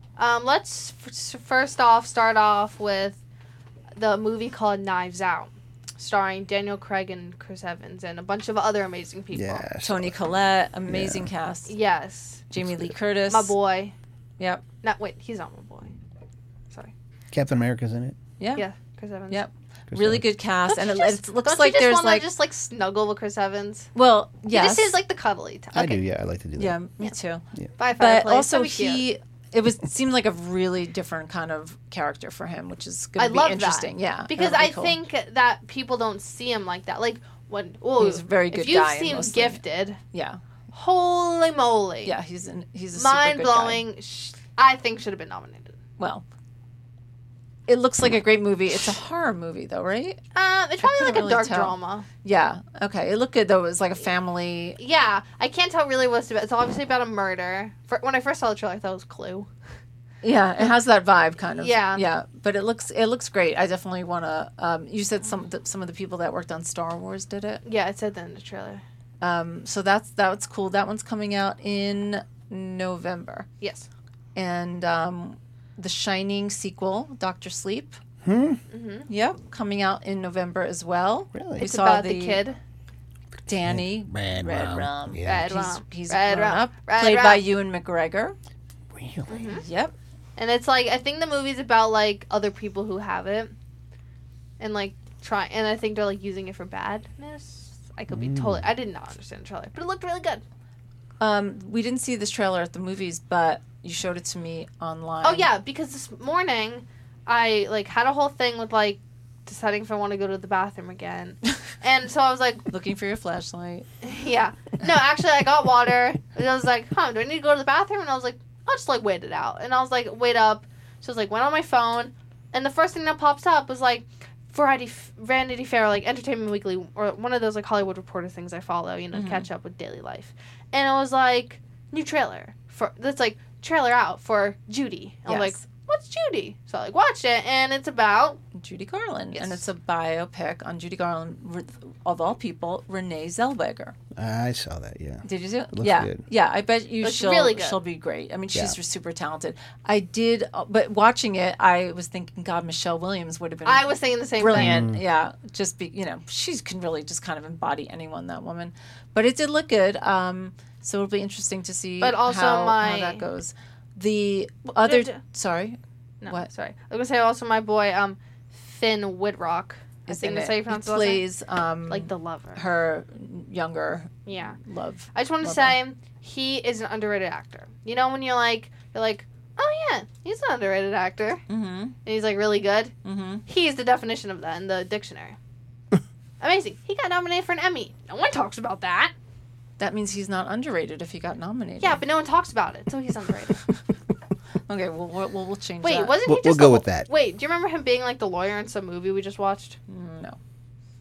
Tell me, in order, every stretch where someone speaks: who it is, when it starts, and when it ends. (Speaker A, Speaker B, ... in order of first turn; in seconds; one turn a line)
Speaker A: 0.2-3.2
Speaker A: 3.9-9.7
Speaker B: 9.3-10.2
Speaker C: 9.8-11.7
Speaker B: 10.9-11.3
Speaker A: 11.7-12.4
Speaker C: 12.5-13.5
Speaker B: 12.6-12.9
Speaker A: 13.3-13.9
Speaker C: 14.4-14.6
Speaker A: 14.8-15.9
Speaker B: 17.3-18.2
Speaker C: 18.4-18.6
Speaker A: 18.6-19.4
Speaker C: 19.3-22.3
Speaker B: 19.9-20.2
Speaker A: 20.7-23.9
Speaker C: 23.9-24.9
Speaker A: 24.5-26.0
Speaker B: 25.7-26.8
Speaker C: 26.6-27.4
Speaker A: 27.8-29.0
Speaker C: 28.0-35.0
Speaker A: 33.2-40.0
Speaker C: 38.0-40.4
Speaker A: 40.7-42.1
Speaker C: 42.0-43.8
Speaker A: 42.9-45.7
Speaker C: 46.0-46.2
Speaker C: 47.7-50.2
Speaker A: 50.3-52.0
Speaker C: 50.8-54.8
Speaker A: 54.8-59.5
Speaker C: 60.2-67.6
Speaker A: 61.6-62.1
Speaker A: 67.6-68.8
Speaker C: 69.2-73.5
Speaker A: 73.6-73.9
Speaker C: 74.3-78.0
Speaker B: 78.2-78.6
Speaker A: 78.7-79.1
Speaker C: 79.1-82.4
Speaker B: 81.3-81.6
Speaker A: 81.6-82.6
Speaker C: 83.5-88.3
Speaker B: 83.6-85.5
Speaker A: 85.2-87.4
Speaker B: 88.9-89.5
Speaker A: 89.3-89.6
Speaker C: 89.5-89.9
Speaker A: 90.4-93.5
Speaker A: 94.6-100.4
Speaker B: 98.1-98.6
Speaker C: 101.2-105.5
Speaker A: 105.2-112.6
Speaker C: 112.7-113.9
Speaker A: 114.0-138.4
Speaker C: 129.1-129.4
Speaker C: 135.3-135.6
Speaker C: 138.5-143.9
Speaker A: 139.3-139.6
Speaker B: 144.1-145.2
Speaker C: 145.2-166.5
Speaker B: 145.7-146.2
Speaker A: 147.0-147.8
Speaker A: 153.6-154.8
Speaker B: 154.5-155.0
Speaker A: 162.0-163.2
Speaker A: 164.8-165.2
Speaker A: 166.2-171.2
Speaker C: 170.1-175.8
Speaker A: 171.9-172.6
Speaker A: 174.2-174.6
Speaker A: 175.1-181.4
Speaker C: 181.5-181.9
Speaker A: 182.0-182.9
Speaker C: 183.0-183.4
Speaker A: 183.4-185.4
Speaker A: 186.4-189.1
Speaker C: 189.8-192.0
Speaker A: 191.8-193.7
Speaker C: 194.7-196.2
Speaker A: 195.8-199.8
Speaker B: 196.2-197.1
Speaker C: 199.9-200.4